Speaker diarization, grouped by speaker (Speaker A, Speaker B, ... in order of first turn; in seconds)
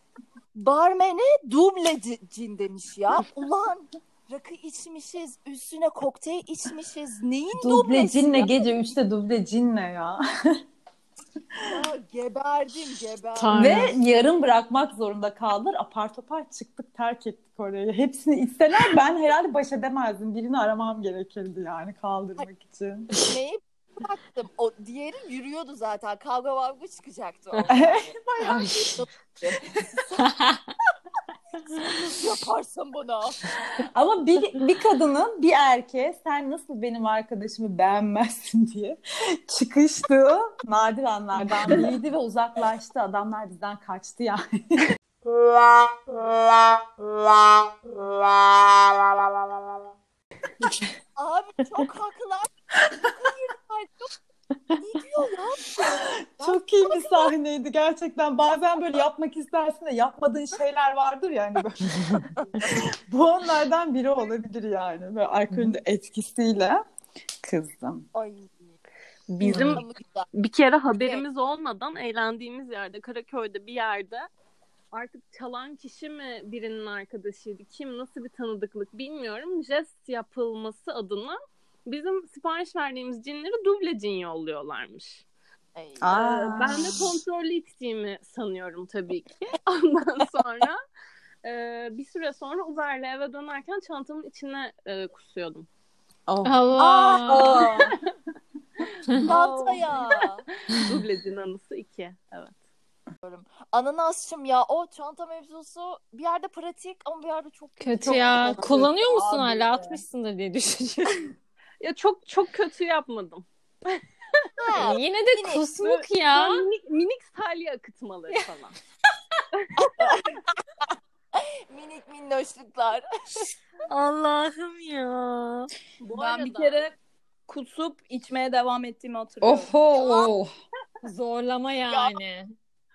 Speaker A: 0.5-8.8, 11.7-13.9, 23.2-28.1, 28.7-30.3, 31.9-33.6, 51.1-52.5, 53.0-54.1, 54.8-57.3, 62.4-62.7, 68.1-68.8, 69.5-70.3, 85.7-86.3, 96.8-97.9, 99.2-100.4, 103.2-109.3, 114.6-115.6, 119.8-120.8, 121.3-123.0, 131.9-132.1
Speaker B: 7.6-10.2, 13.5-23.1, 27.7-28.8, 33.8-44.8, 55.9-66.8, 67.4-68.1, 69.4-69.8, 86.0-87.1, 96.3-96.5, 97.5-97.8, 108.0-108.9, 129.4-130.5
Speaker C: 13.3-13.9, 28.4-29.1, 30.2-30.7, 69.4-69.8, 96.4-97.5, 107.8-111.3, 114.8-116.6, 131.0-132.5
Speaker D: 69.3-74.3, 74.9-85.2, 86.0-90.8, 91.4-95.7, 97.4-97.8, 99.1-102.5, 111.8-113.4, 115.8-118.7, 119.6-120.2, 123.9-126.8
Speaker E: 126.1-126.9, 127.5-129.7